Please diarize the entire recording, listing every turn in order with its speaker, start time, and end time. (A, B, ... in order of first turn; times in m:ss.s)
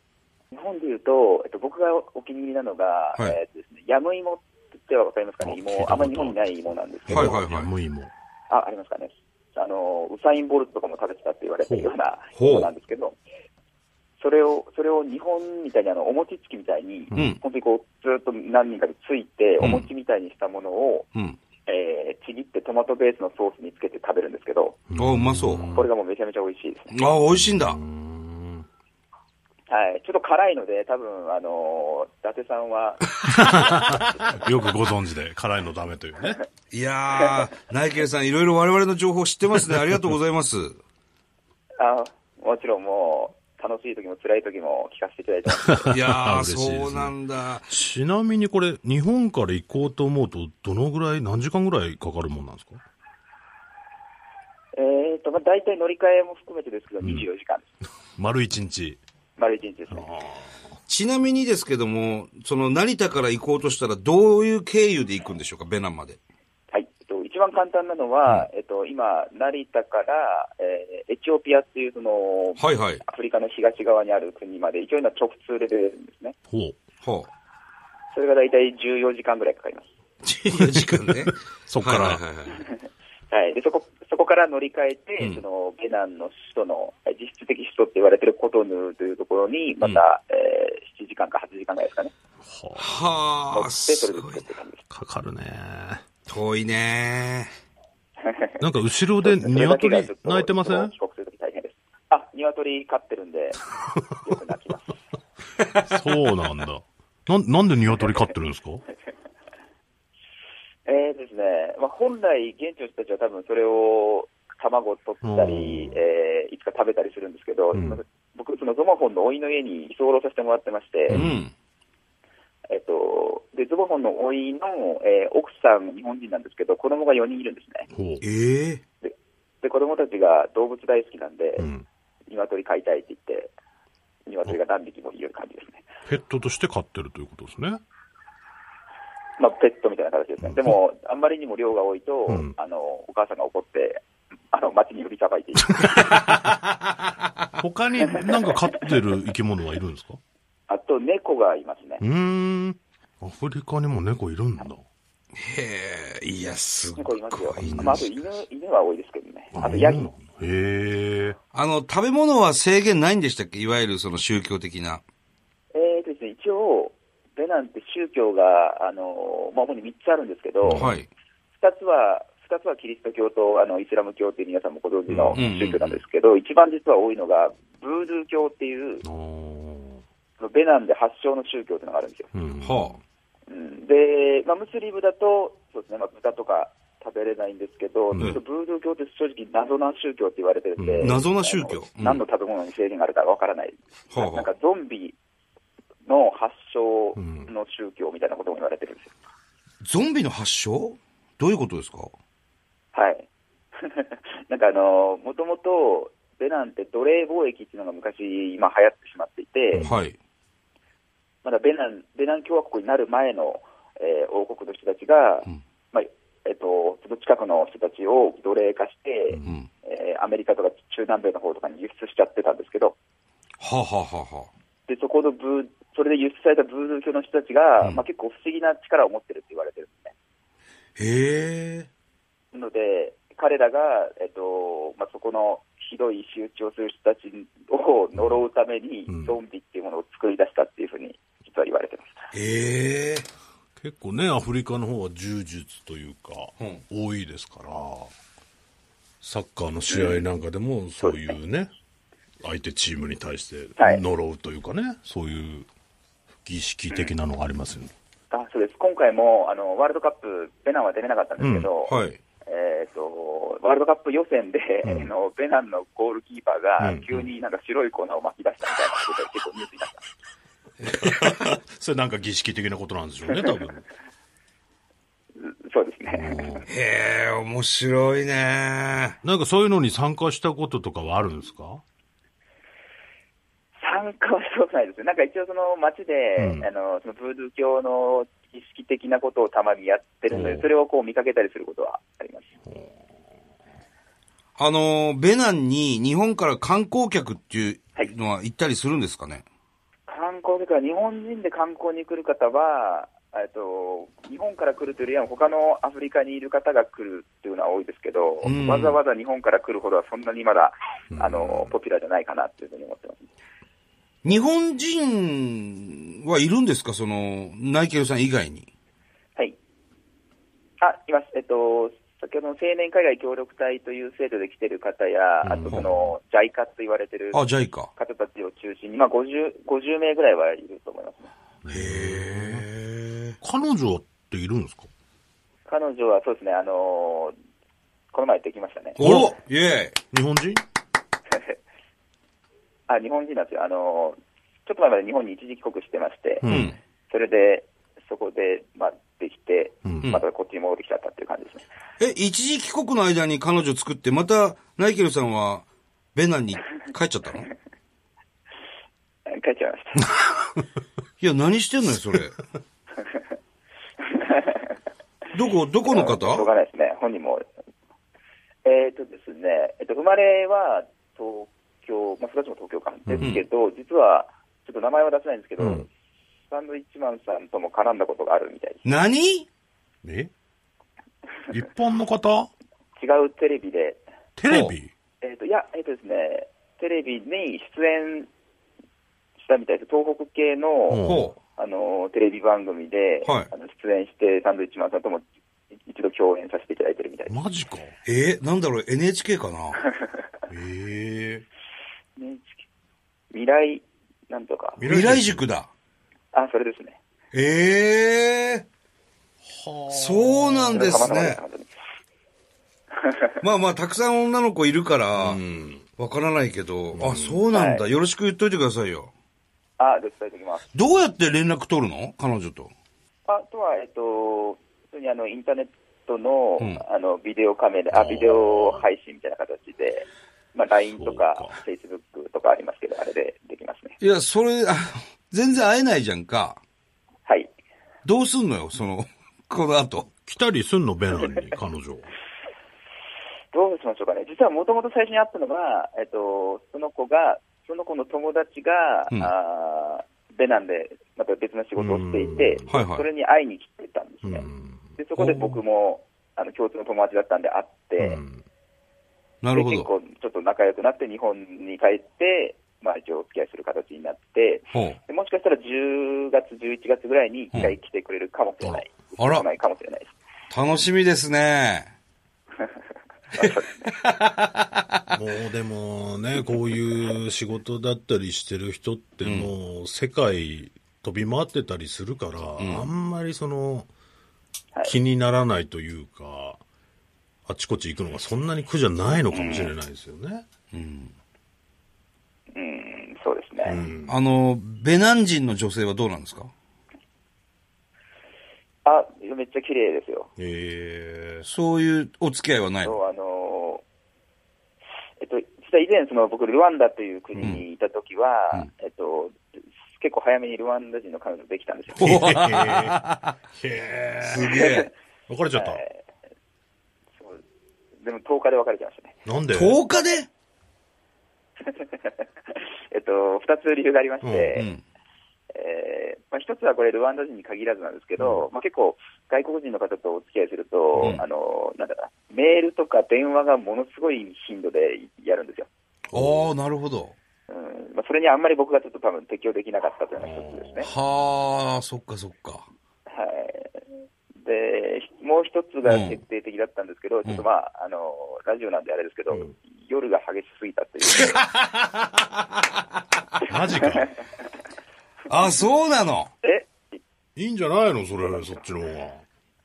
0:00.5-0:07.4 A
0:05.4-0:06.5 B
0:07.1-0:08.1 B
0:07.1-0:07.7 C
0:08.5-0:13.2 A
0:11.6-0:11.9 B
0:12.3-0:12.7 C
0:14.2-0:21.1 A
0:17.1-0:17.4 C
0:19.6-0:19.9 C
0:21.7-0:24.8 A
0:24.9-0:25.9 B
0:25.0-0:25.7 C
0:25.7-0:27.0 A
0:26.9-0:27.8 C
0:27.3-0:28.6 B
0:29.7-0:34.5 A
0:33.2-0:36.4 B
0:36.7-0:40.8 C
0:41.8-0:46.0 A
0:45.6-0:47.1 B
0:45.9-0:47.7 C
0:47.7-0:52.8 B
0:54.7-0:57.7 A
0:57.0-0:57.3 B
0:58.2-0:59.0 B
0:59.4-1:00.1 A
0:59.9-1:00.8 B
1:00.9-1:06.2 C
1:06.7-1:16.4 A
1:12.6-1:13.0 C
1:16.5-1:16.8 B
1:17.0-1:17.3 C
1:18.1-1:19.8 A
1:20.2-1:22.6 C
1:20.6-1:21.1 B
1:21.7-1:22.2 B
1:23.3-1:32.1 A
1:32.4-1:33.3 B
1:32.8-1:34.4 C
1:33.5-1:34.8 A
1:34.9-1:36.0 B
1:36.3-1:37.5 C
1:38.2-1:38.6 A
1:38.6-1:40.9 B
1:39.2-1:43.6 A
1:43.8-1:44.1 B
1:44.2-1:45.0 A
1:45.6-1:46.0 C
1:45.8-1:48.8 B
1:50.8-2:01.2 A
1:55.2-1:56.0 B
1:57.7-1:58.0 B
2:01.1-2:01.5 C
2:01.1-2:01.4 B
2:02.7-2:07.9 A
2:07.9-2:08.2 B
2:08.2-2:08.8 C
2:09.0-2:11.7 A
2:11.6-2:11.8 B
2:12.3-2:13.5 A
2:14.2-2:15.8 A
2:16.1-2:17.8 B
2:19.4-2:24.0 A
2:20.4-2:20.8 B
2:22.3-2:22.5 B
2:24.5-2:26.2 A
2:25.8-2:26.6 B
2:27.6-2:30.2 B
2:30.7-2:32.0 A
2:32.0-2:34.8 B
2:35.3-2:38.4 C
2:37.0-2:40.1 A
2:37.6-2:38.0 B
2:39.5-2:41.4 B
2:41.5-2:45.0 C
2:45.7-2:50.9 A
2:50.6-2:50.9 B
2:50.7-2:51.1 C
2:51.6-2:59.0 A
2:55.1-2:55.4 B
2:55.3-2:56.0 C
2:59.0-3:00.0 B
3:00.4-3:02.3 A
3:02.3-3:03.0 B
3:02.6-3:03.0 C
3:03.5-3:15.2 A
3:08.1-3:08.4 B
3:10.8-3:11.2 B
3:11.0-3:12.2 C
3:14.1-3:14.5 C
3:16.1-3:19.1 A
3:17.2-3:17.5 B
3:19.8-3:22.1 C
3:22.9-3:29.9 A
3:29.8-3:30.2 C
3:31.4-3:43.0 A
3:43.6-3:44.5 C
3:44.9-3:50.1 A
3:51.0-3:51.9 C
3:52.5-4:02.3 A
3:59.1-3:59.4 B
4:02.3-4:03.3 C
4:03.8-4:08.1 B
4:09.2-4:11.7 B
4:09.9-4:10.2 A
4:11.0-4:11.3 A
4:12.4-4:15.7 B
4:13.8-4:14.0 A
4:16.4-4:17.9 B
4:18.3-4:30.1 A
4:21.4-4:21.7 B
4:21.9-4:22.2 C
4:24.8-4:25.1 B
4:26.8-4:27.1 B
4:30.8-4:31.6 C
4:30.9-4:33.8 B
4:35.4-4:36.6 A
4:36.1-4:36.6 B
4:36.7-4:39.2 C
4:39.2-4:41.8 B
4:43.8-4:52.5 A
4:46.4-4:46.7 B
4:50.3-4:50.7 B
4:52.7-4:53.0 B
4:54.6-4:59.4 C
5:00.1-5:13.2 A
5:08.4-5:09.0 C
5:11.1-5:11.7 B
5:14.2-5:18.7 C
5:20.8-5:27.4 A
5:25.4-5:26.2 B
5:27.3-5:27.9 C
5:28.0-5:31.3 A
5:31.6-5:32.7 B
5:31.7-5:33.4 C
5:33.4-5:34.9 B
5:35.7-5:37.4 A
5:38.1-5:39.0 A
5:39.0-5:40.0 C
5:39.0-5:39.3 B
5:40.1-5:40.6 B
5:42.9-5:46.5 A
5:46.4-5:46.7 B
5:46.4-5:46.8 C
5:47.1-5:51.6 A
5:52.0-5:57.5 C
5:59.3-6:00.1 A
6:01.2-6:02.4 C
6:04.0-6:04.8 A
6:05.3-6:06.5 C
6:05.9-6:07.4 A
6:08.6-6:15.9 A
6:13.1-6:13.4 B
6:15.6-6:15.8 B
6:16.5-6:18.8 A
6:18.8-6:19.5 C
6:20.0-6:20.3 B
6:21.5-6:22.5 B
6:23.0-6:24.0 A
6:24.4-6:24.9 B
6:24.5-6:24.7 C
6:25.2-6:28.3 A
6:29.4-6:35.2 A
6:30.9-6:31.3 B
6:31.0-6:31.4 C
6:33.2-6:33.5 C
6:35.8-6:37.4 A
6:37.3-6:37.9 B
6:38.0-6:39.8 C
6:40.5-6:41.4 B
6:42.2-6:42.6 A
6:43.3-6:44.8 A
6:44.8-6:45.5 B
6:44.8-6:45.7 C
6:46.3-6:47.0 A
6:47.3-6:48.7 C
6:49.4-6:51.1 B
6:49.9-6:51.4 C
6:50.7-6:51.7 A
6:53.0-6:53.3 A
6:53.4-6:55.4 C
6:55.1-6:55.8 B
6:56.0-6:59.1 C
6:56.9-6:57.4 B
6:57.5-6:57.8 A
6:59.8-7:00.7 A
7:00.7-7:02.7 C
7:03.3-7:14.0 A
7:07.9-7:08.8 B
7:10.9-7:11.6 B
7:14.0-7:16.6 C
7:18.0-7:20.1 C
7:20.2-7:22.1 B
7:23.5-7:38.2 A
7:31.8-7:32.7 B
7:32.7-7:33.1 C
7:34.2-7:34.9 B
7:35.2-7:35.6 C
7:38.0-7:38.4 B
7:39.4-7:39.9 C
7:39.5-7:50.1 A
7:44.7-7:45.0 C
7:49.2-7:49.4 C
7:50.5-7:51.9 C
7:53.3-7:53.7 A
7:53.4-7:55.0 C
7:55.1-8:03.9 B
7:59.2-7:59.5 C
8:02.6-8:02.9 C
8:04.8-8:06.6 B
8:07.4-8:10.4 B
8:09.3-8:09.7 A
8:10.7-8:11.1 C
8:12.5-8:13.8 A
8:13.6-8:14.2 B
8:14.1-8:16.5 C
8:18.8-8:20.3 A
8:20.4-8:21.4 B
8:21.4-8:23.0 C
8:22.8-8:23.8 A
8:25.2-8:29.4 A
8:30.0-8:32.2 A
8:31.9-8:34.7 B
8:32.0-8:33.4 C
8:34.2-8:34.9 C
8:34.4-8:34.9 A
8:35.3-8:35.8 B
8:35.5-8:36.0 A
8:37.2-8:37.4 A
8:38.0-8:39.2 A
8:39.2-8:39.8 B
8:39.5-8:40.3 C
8:41.6-8:44.7 A
8:44.2-8:44.6 B
8:44.6-8:44.8 C
8:45.5-8:55.7 A
8:48.2-8:48.4 B
8:56.1-8:57.1 C
8:56.1-8:56.5 B
8:57.5-9:00.9 A
9:00.2-9:01.1 B
9:00.8-9:02.7 C
9:03.1-9:03.9 A
9:04.4-9:11.4 A
9:05.8-9:06.2 C
9:13.4-9:14.1 B
9:13.8-9:14.1 A
9:15.3-9:16.3 C
9:16.4-9:17.0 A
9:17.4-9:19.2 B